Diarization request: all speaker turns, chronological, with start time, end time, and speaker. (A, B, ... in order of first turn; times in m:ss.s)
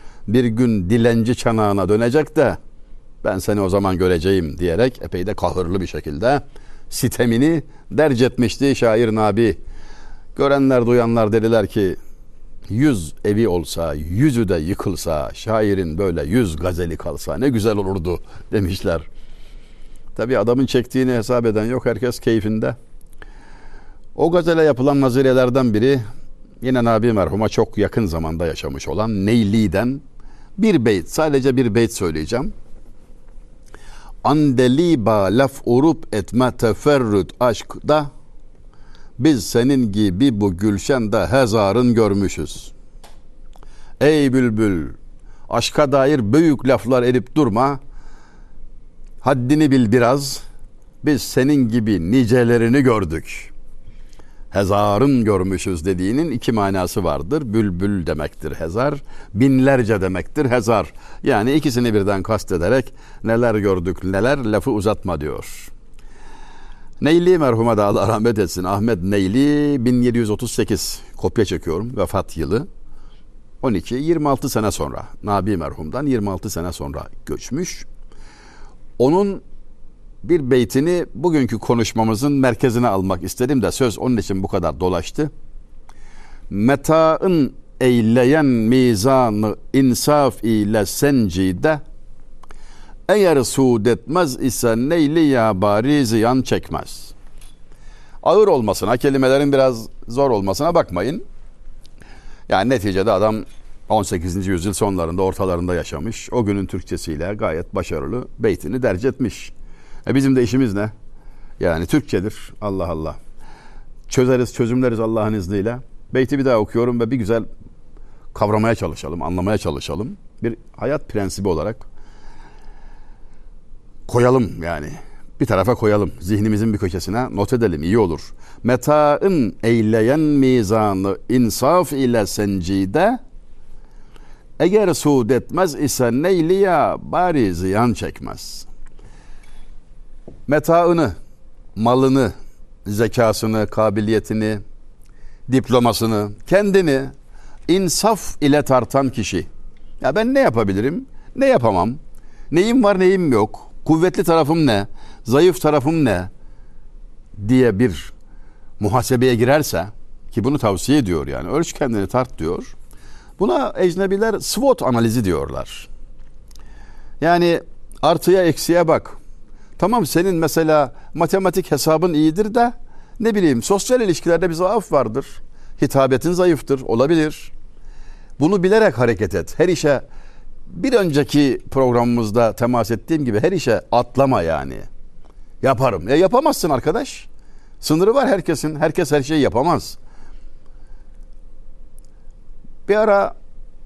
0:00.3-0:02.6 A
0:03.2-0:09.6 A
0:10.3-0:12.0 A
0:12.7-0:19.0 A
0:20.1-0:22.8 A
0:24.2-0:26.0 A
0:26.6-0:30.0 A
0:30.6-0:32.5 A
0:34.2-0:38.1 A
0:39.2-0:42.7 A
0:44.0-0:44.9 A
0:45.5-0:47.8 A
0:49.2-0:50.4 A
0:51.0-0:53.5 A
0:54.5-1:05.7 A
1:07.0-1:12.7 A
1:13.6-1:17.8 A
1:19.0-1:19.4 A
1:20.2-1:25.3 A
1:26.5-1:31.8 A
1:33.1-1:37.1 A
1:38.2-1:41.2 A
1:42.5-1:49.5 A
1:50.0-1:50.9 A
1:51.6-1:53.2 A
1:54.1-1:57.4 A
1:58.3-2:01.8 A
2:04.1-2:13.2 A
2:14.6-2:18.7 A
2:20.5-2:21.1 A
2:21.8-2:22.3 A
2:22.8-2:24.6 A
2:25.5-2:27.1 A
2:27.7-2:29.5 A
2:30.0-2:32.0 A
2:32.5-2:36.3 A
2:37.4-2:38.1 A
2:38.8-2:42.7 A
2:43.4-2:45.9 A
2:47.2-2:49.2 A
2:49.8-2:57.5 A
2:58.4-3:00.0 A
3:00.7-3:04.8 A
3:05.6-3:07.3 A
3:07.8-3:10.0 A
3:12.9-3:13.3 A